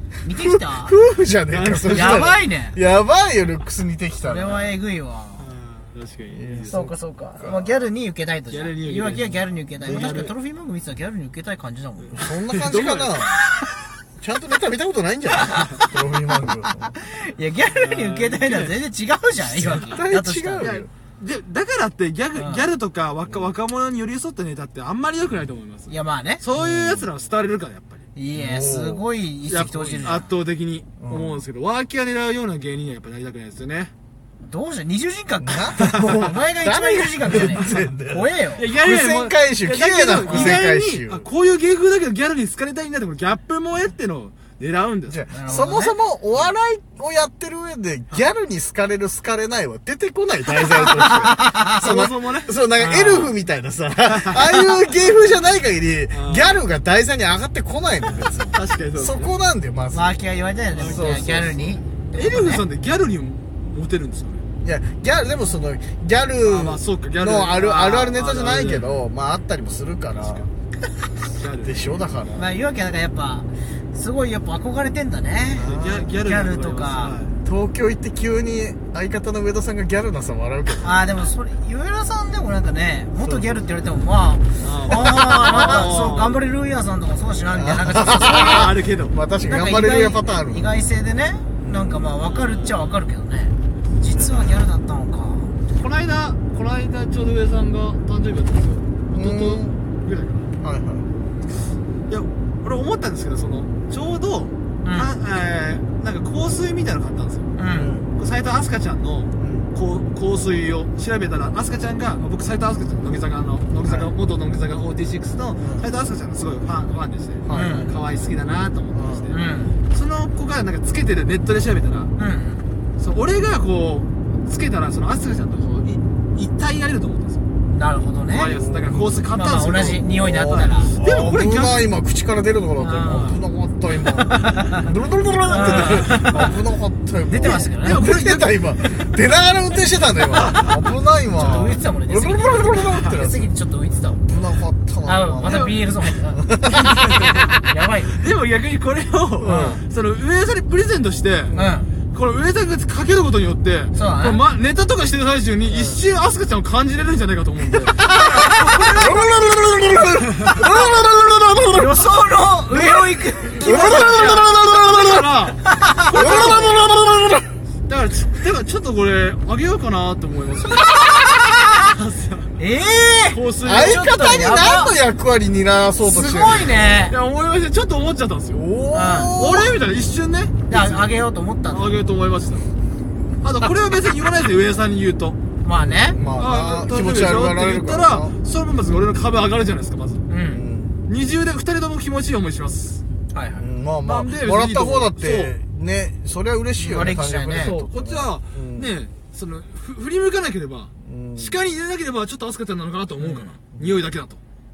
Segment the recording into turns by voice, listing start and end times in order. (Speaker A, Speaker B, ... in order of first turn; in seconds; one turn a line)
Speaker A: 0.2-1.0
Speaker B: 0.5-4.8
Speaker C: 1.5-2.2
Speaker A: 1.9-2.8
Speaker A: 4.2-5.5
Speaker C: 5.4-6.8
Speaker B: 6.3-7.8
Speaker A: 6.7-12.3
Speaker C: 8.5-10.3
Speaker B: 9.8-10.3
Speaker C: 12.1-13.3
Speaker B: 12.1-13.4
Speaker B: 14.2-16.9
Speaker A: 15.5-15.8
Speaker A: 16.8-20.8
Speaker C: 17.7-18.8
Speaker B: 19.5-20.9
Speaker C: 20.6-28.1
Speaker A: 22.4-22.6
Speaker A: 25.9-26.4
Speaker B: 26.6-27.1
Speaker A: 28.1-30.4
Speaker B: 28.3-29.1
Speaker C: 29.5-33.9
Speaker B: 31.0-31.4
Speaker A: 34.4-38.7
Speaker B: 35.4-41.3
Speaker C: 38.5-45.2
Speaker A: 40.3-40.6
Speaker B: 45.1-60.1
Speaker A: 45.3-46.0
Speaker A: 50.7-51.8
Speaker C: 51.7-52.7
Speaker A: 52.8-53.3
Speaker C: 54.0-54.6
Speaker C: 56.1-56.6
Speaker C: 58.5-59.3
Speaker A: 59.9-62.7
Speaker C: 60.7-61.3
Speaker B: 60.8-61.8
Speaker C: 62.1-64.5
Speaker B: 64.6-70.5
Speaker C: 66.4-69.0
Speaker C: 70.2-70.5
Speaker C: 71.3-72.0
Speaker B: 71.6-72.5
Speaker A: 72.3-77.2
Speaker C: 75.6-77.4
Speaker B: 75.6-76.1
Speaker B: 77.4-80.9
Speaker A: 80.8-88.7
Speaker B: 83.2-83.6
Speaker C: 84.6-86.4
Speaker B: 85.5-85.9
Speaker B: 87.5-90.7
Speaker C: 88.2-89.2
Speaker A: 89.4-95.5
Speaker B: 91.6-92.2
Speaker C: 92.2-92.8
Speaker B: 94.1-94.6
Speaker C: 95.7-100.5
Speaker B: 99.1-99.8
Speaker B: 100.6-101.1
Speaker C: 102.1-107.5
Speaker A: 104.8-105.1
Speaker A: 107.6-108.0
Speaker B: 107.7-108.1
Speaker C: 108.2-122.1
Speaker B: 109.4-109.7
Speaker B: 113.8-114.1
Speaker B: 115.6-115.9
Speaker B: 117.4-118.0
Speaker A: 117.5-118.0
Speaker B: 118.9-119.3
Speaker A: 119.3-119.8
Speaker A: 122.2-122.7
Speaker C: 123.0-127.5
Speaker A: 127.7-128.6
Speaker C: 128.3-131.9
Speaker B: 128.5-129.1
Speaker A: 129.3-131.0
Speaker B: 130.1-143.5
Speaker A: 132.8-133.4
Speaker C: 134.2-134.8
Speaker A: 135.5-136.5
Speaker C: 135.6-136.5
Speaker A: 137.2-138.0
Speaker C: 137.4-139.1
Speaker C: 140.3-140.7
Speaker A: 141.3-144.3
Speaker B: 144.2-147.2
Speaker A: 145.0-146.5
Speaker C: 145.4-145.8
Speaker C: 146.7-147.5
Speaker A: 147.6-148.2
Speaker C: 148.2-151.6
Speaker B: 149.4-149.8
Speaker A: 149.4-149.8
Speaker B: 151.5-151.8
Speaker A: 151.5-151.9
Speaker C: 152.1-159.2
Speaker A: 153.9-154.4
Speaker A: 155.7-156.0
Speaker B: 158.2-162.1
Speaker A: 161.7-164.2
Speaker C: 163.5-166.9
Speaker B: 163.5-165.2
Speaker A: 165.8-166.1
Speaker B: 166.1-167.5
Speaker C: 167.9-172.6
Speaker A: 172.6-175.0
Speaker C: 173.3-174.1
Speaker B: 173.6-177.1
Speaker A: 176.0-177.2
Speaker C: 177.1-178.7
Speaker B: 178.5-179.8
Speaker A: 178.9-179.3
Speaker C: 179.3-181.1
Speaker A: 180.7-182.0
Speaker C: 181.7-182.7
Speaker C: 183.4-185.4
Speaker A: 185.6-186.2
Speaker B: 185.8-188.3
Speaker C: 186.3-190.2
Speaker A: 190.3-190.7
Speaker B: 190.5-191.0
Speaker C: 191.1-193.0
Speaker A: 193.3-193.7
Speaker B: 193.6-198.9
Speaker C: 194.0-195.6
Speaker A: 196.8-197.9
Speaker C: 197.0-204.4
Speaker B: 201.0-201.5
Speaker A: 203.2-203.5